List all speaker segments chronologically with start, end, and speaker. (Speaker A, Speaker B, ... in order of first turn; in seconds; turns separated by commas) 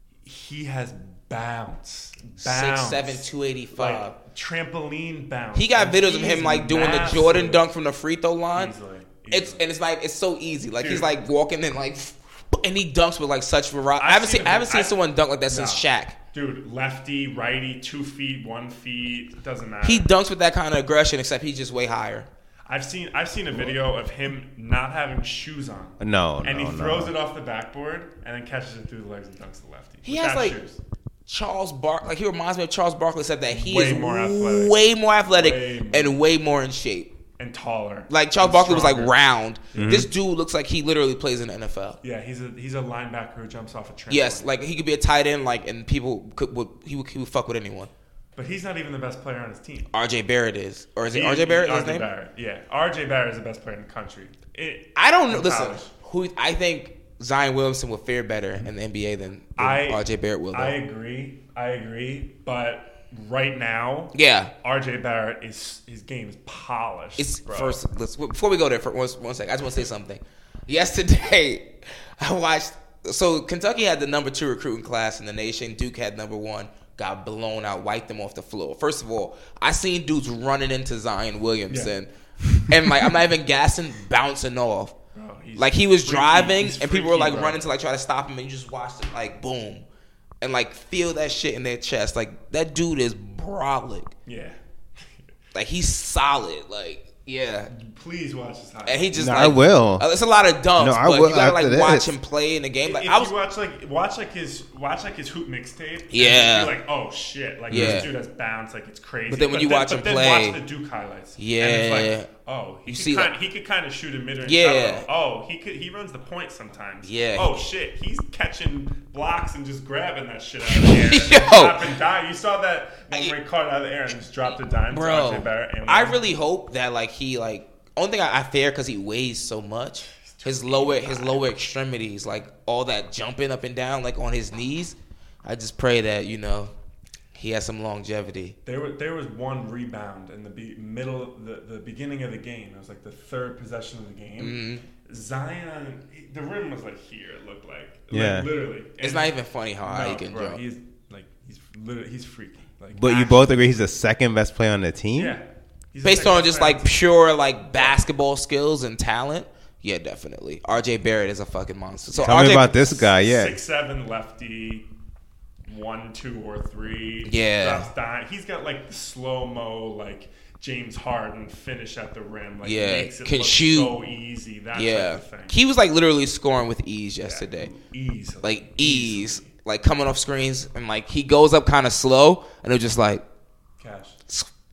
Speaker A: 0.2-7.6, Speaker B: 2.4-4.2, Speaker B: 5.5-8.7, Speaker A: 8.6-9.6, Speaker B: 9.3-16.2, Speaker A: 10.8-11.1, Speaker A: 14.0-14.9, Speaker A: 15.5-20.1, Speaker B: 19.8-22.3, Speaker A: 22.7-30.8, Speaker C: 26.0-27.1, Speaker B: 30.1-30.6, Speaker B: 31.3-37.1, Speaker A: 33.5-34.8, Speaker A: 35.3-36.1, Speaker A: 37.4-39.1, Speaker B: 38.1-42.0, Speaker A: 39.7-40.1, Speaker C: 39.8-40.1, Speaker A: 42.0-44.5, Speaker B: 44.1-47.9, Speaker A: 48.4-49.9, Speaker B: 49.9-52.1, Speaker A: 51.1-55.9, Speaker B: 55.0-60.8, Speaker A: 59.6-67.8, Speaker B: 64.1-64.5, Speaker B: 67.2-82.1, Speaker A: 81.7-81.9, Speaker B: 82.7-85.0, Speaker A: 85.1-87.6, Speaker B: 85.6-89.9, Speaker B: 90.4-94.1, Speaker A: 94.3-95.3, Speaker B: 95.5-97.7, Speaker A: 97.7-99.5, Speaker B: 98.9-103.3, Speaker C: 99.1-100.0, Speaker C: 100.8-102.1, Speaker A: 102.8-126.2, Speaker B: 106.1-106.8, Speaker C: 107.7-108.1, Speaker B: 107.7-108.1, Speaker B: 109.3-110.6, Speaker B: 111.4-112.3, Speaker B: 112.9-113.3, Speaker B: 114.5-115.1, Speaker B: 117.0-117.6, Speaker B: 120.7-121.9, Speaker B: 124.9-136.7, Speaker A: 130.2-131.5, Speaker B: 137.3-138.6, Speaker A: 138.7-149.3, Speaker B: 144.4-144.8, Speaker C: 148.1-148.5, Speaker B: 149.0-150.6, Speaker A: 149.8-153.7, Speaker C: 152.9-155.4, Speaker A: 155.2-156.9, Speaker B: 156.0-162.7, Speaker A: 157.7-158.0, Speaker A: 162.1-164.9, Speaker C: 162.2-163.6, Speaker A: 165.7-175.6, Speaker B: 167.2-167.9, Speaker B: 172.6-174.0, Speaker B: 174.7-177.7, Speaker A: 177.2-179.5, Speaker B: 178.4-183.2, Speaker A: 183.8-184.2